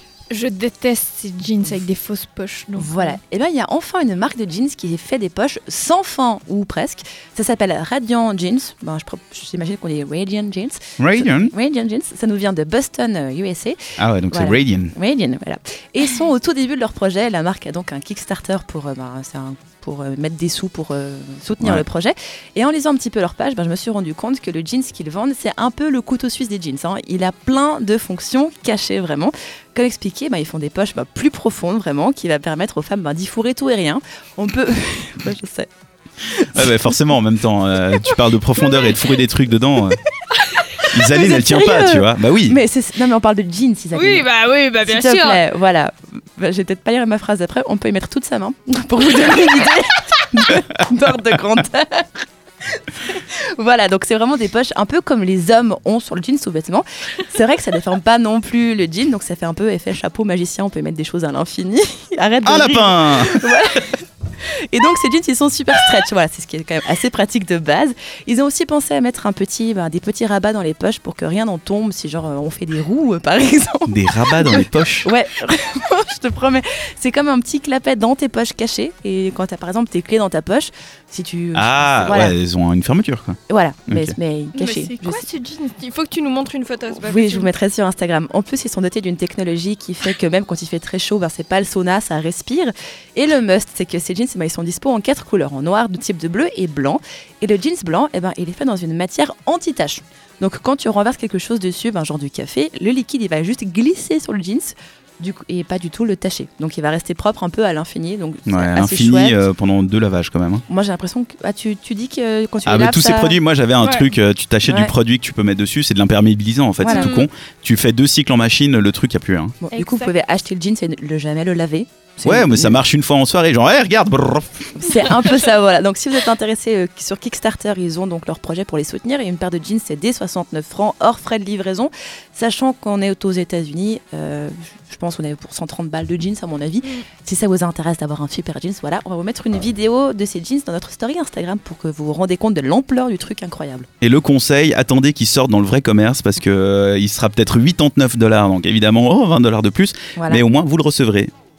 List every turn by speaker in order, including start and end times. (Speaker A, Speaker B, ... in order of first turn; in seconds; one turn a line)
Speaker A: 0.3-3.2
Speaker B: 2.8-13.8
Speaker C: 11.0-11.5
Speaker C: 14.0-14.9
Speaker B: 14.3-35.7
Speaker B: 36.2-36.7
Speaker C: 36.5-40.0
Speaker C: 40.9-42.6
Speaker B: 41.0-44.3
Speaker A: 43.9-45.4
Speaker B: 44.8-52.2
Speaker B: 52.9-82.3
Speaker C: 62.5-63.5
Speaker C: 73.9-75.1
Speaker C: 81.5-83.4
Speaker B: 83.5-85.2
Speaker C: 83.9-84.2
Speaker A: 84.5-87.5
Speaker B: 87.0-109.5
Speaker C: 108.5-110.6
Speaker B: 110.7-113.4
Speaker C: 112.7-119.6
Speaker A: 113.8-114.1
Speaker B: 114.7-114.9
Speaker B: 116.8-117.1
Speaker A: 116.8-117.3
Speaker B: 119.6-122.8
Speaker A: 119.7-120.1
Speaker C: 122.2-125.2
Speaker B: 124.8-143.9
Speaker C: 144.0-151.3
Speaker B: 150.2-150.4